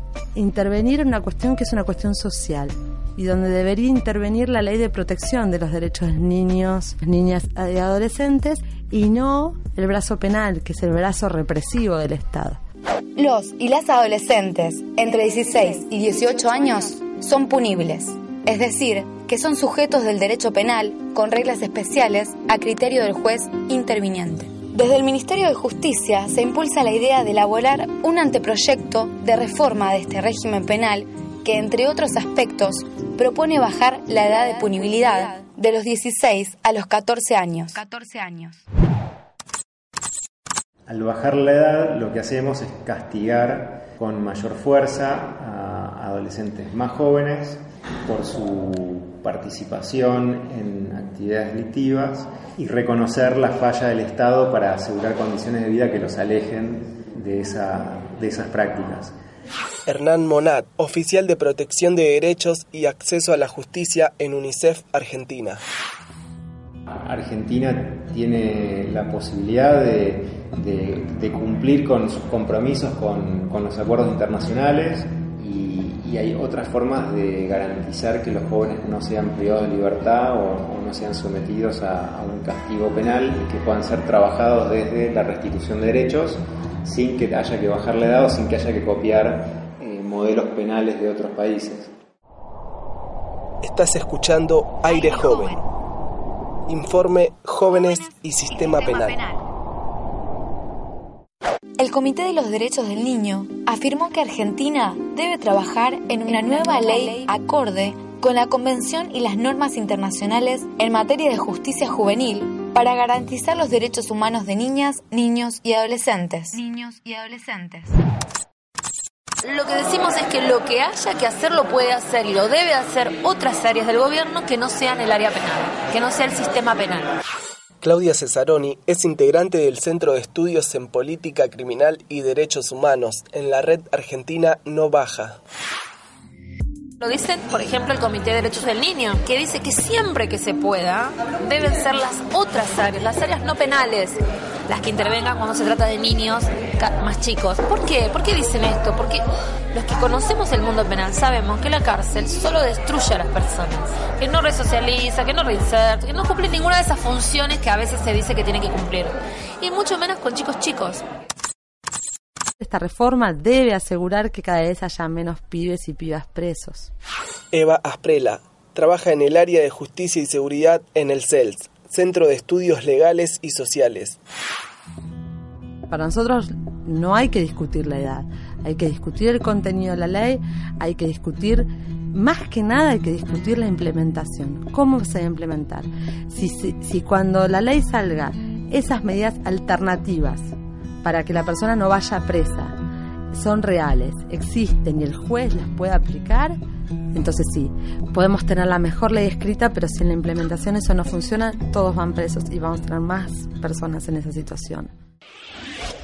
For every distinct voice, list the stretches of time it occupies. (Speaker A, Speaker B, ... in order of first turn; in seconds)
Speaker A: 0.3-12.6, 162.6-166.9, 175.9-192.8, 193.3-196.6, 197.1-204.9
Speaker B: 13.2-38.6, 94.9-95.3, 98.5-99.4, 101.8-118.0
Speaker C: 40.9-59.1, 67.0-91.9
Speaker D: 59.9-65.6, 93.6-95.6, 96.7-99.2, 127.8-135.4, 167.5-174.2
Speaker E: 119.4-127.1, 137.0-161.0